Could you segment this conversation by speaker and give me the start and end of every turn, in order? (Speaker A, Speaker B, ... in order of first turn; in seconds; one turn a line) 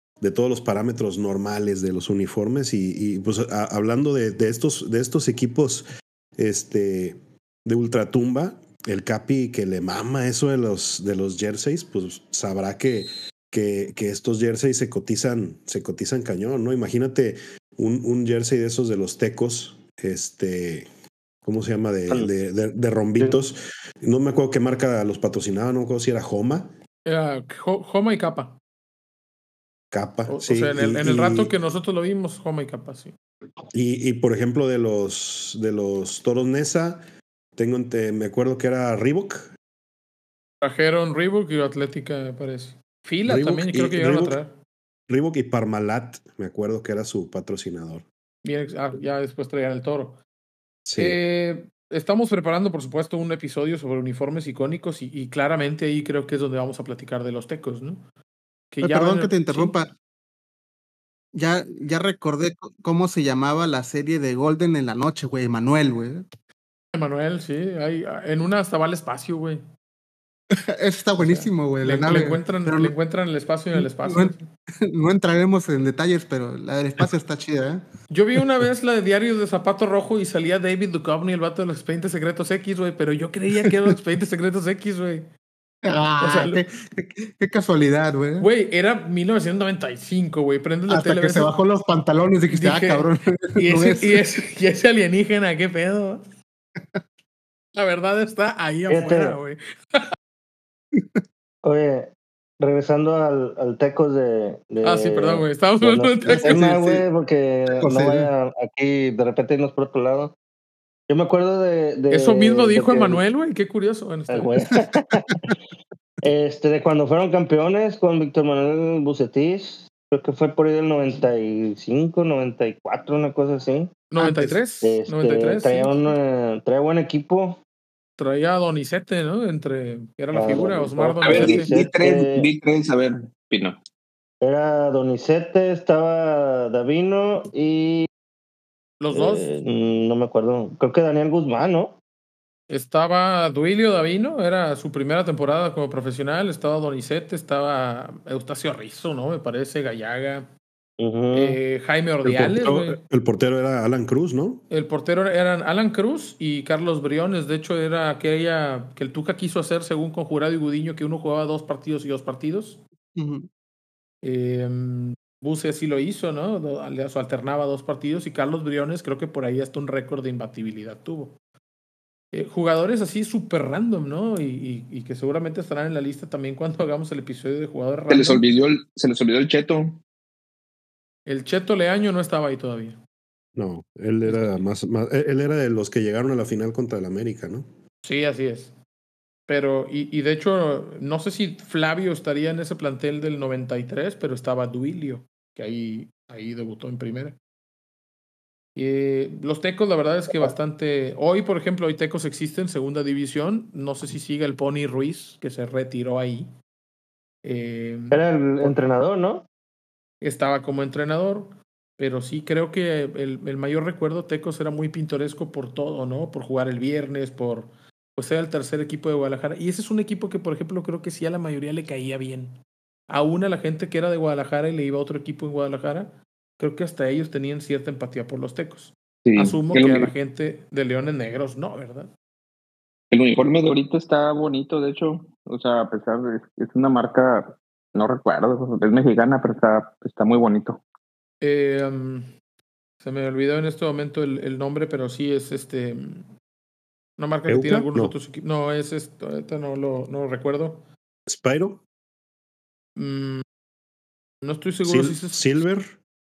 Speaker A: 0.2-20.9
Speaker A: 21.4-26.7
Speaker B: 27.1-28.6
Speaker A: 29.9-31.5
Speaker B: 30.3-33.1
Speaker A: 33.7-37.0
Speaker A: 37.5-39.5
Speaker B: 40.6-44.5
Speaker A: 43.3-44.4
Speaker A: 45.1-48.0
Speaker B: 48.4-50.2
Speaker A: 50.8-51.2
Speaker B: 51.0-58.0
Speaker B: 58.7-59.8
Speaker C: 58.8-59.9
Speaker C: 61.3-66.2
Speaker B: 66.9-69.6
Speaker C: 70.5-72.9
Speaker B: 71.2-74.5
Speaker C: 73.7-77.8
Speaker B: 78.1-85.3
Speaker C: 85.8-88.5
Speaker B: 86.2-86.6
Speaker B: 88.4-91.5
Speaker C: 90.9-94.2
Speaker B: 92.5-96.2
Speaker B: 97.8-100.1
Speaker D: 98.9-99.4
Speaker D: 101.6-110.3
Speaker B: 104.8-106.8
Speaker C: 106.2-107.0
Speaker C: 107.7-108.3
Speaker D: 111.1-113.2
Speaker B: 112.1-114.6
Speaker D: 114.3-115.4
Speaker D: 116.2-123.9
Speaker B: 124.1-126.1
Speaker C: 124.2-124.6
Speaker D: 124.8-127.6
Speaker B: 128.2-131.7
Speaker D: 130.3-132.5
Speaker E: 131.2-133.8
Speaker D: 134.4-138.1
Speaker B: 139.0-139.5
Speaker D: 139.1-142.0
Speaker B: 142.7-150.5
Speaker D: 151.0-151.6
Speaker B: 151.3-153.0
Speaker A: 152.2-154.6
Speaker B: 154.7-162.8
Speaker C: 163.1-163.5
Speaker B: 164.2-171.3
Speaker B: 172.3-178.4
Speaker E: 178.1-180.0
Speaker B: 181.2-183.0
Speaker A: 183.5-187.7
Speaker B: 184.2-184.6
Speaker B: 188.0-188.7
Speaker B: 189.5-197.3
Speaker B: 198.7-206.5
Speaker B: 207.4-208.7
Speaker D: 208.1-209.5
Speaker B: 210.2-222.6
Speaker B: 223.1-232.1
Speaker E: 229.2-230.1
Speaker E: 233.1-240.8
Speaker B: 241.4-242.3
Speaker B: 243.0-246.3
Speaker B: 247.2-250.8
Speaker A: 247.5-248.1
Speaker A: 251.3-251.8
Speaker B: 252.9-253.4
Speaker B: 254.4-255.5
Speaker A: 254.8-256.0